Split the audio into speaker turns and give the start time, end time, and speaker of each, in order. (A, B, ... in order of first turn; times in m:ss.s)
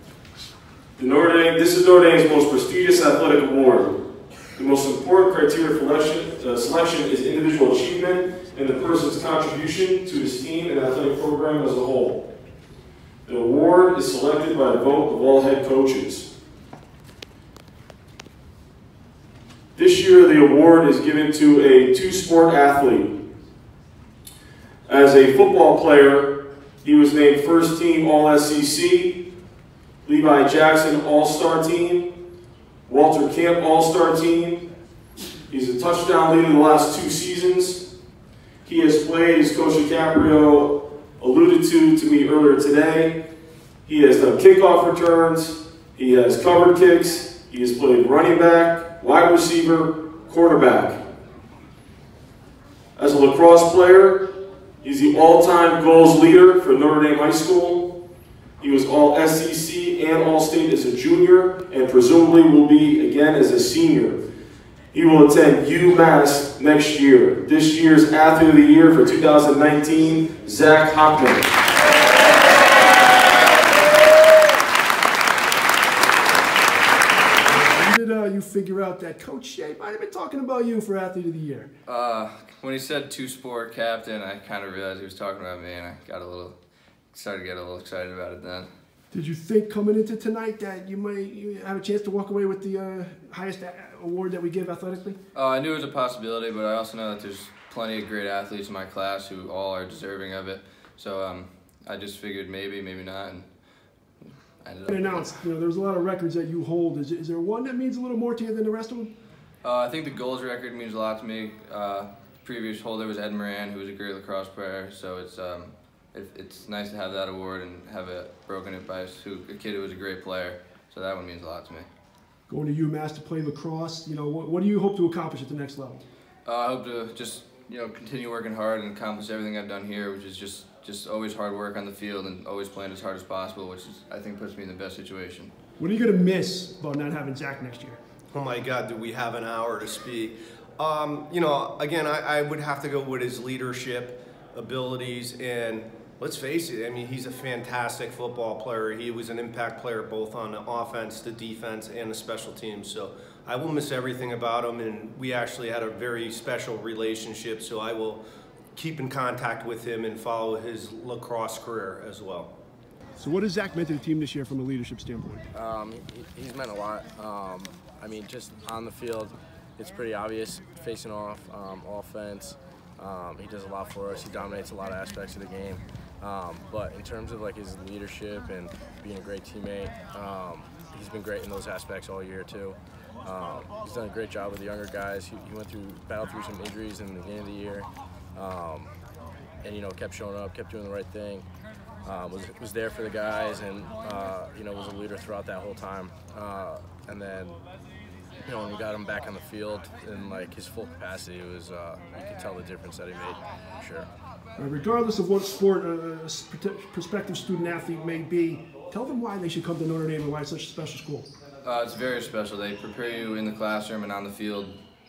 0:01.0-0:04.0 A
0:04.5-0:12.2 A
0:13.2-0:16.3 A
0:19.8-0:23.1 A
0:24.9-0:29.2 A
0:30.0-0:32.1 A
0:32.9-0:34.7 A
0:35.5-0:37.8 A
0:38.6-0:43.2 A
0:43.8-0:51.0 A
0:53.0-0:54.3 A
0:54.8-0:57.9 A
0:58.6-1:04.2 A
1:04.9-1:11.5 A
1:17.7-1:21.7 B
1:21.8-1:26.6 C
1:27.1-1:28.7 C
1:29.1-1:35.2 B
1:35.3-1:43.4 C
1:44.6-1:45.3 C
1:44.9-1:49.1 B
1:49.6-2:01.9 C
2:02.5-2:06.0 B
2:06.4-2:15.5 C
2:15.8-2:18.0 B
2:18.3-2:38.2 D
2:38.7-2:42.5 D
2:43.2-2:45.5 B
2:45.5-3:08.9 E
3:09.6-3:11.5 E
3:12.0-3:17.6 E
3:18.4-3:24.1 E
3:24.6-3:31.3 B
3:31.6-3:34.7 C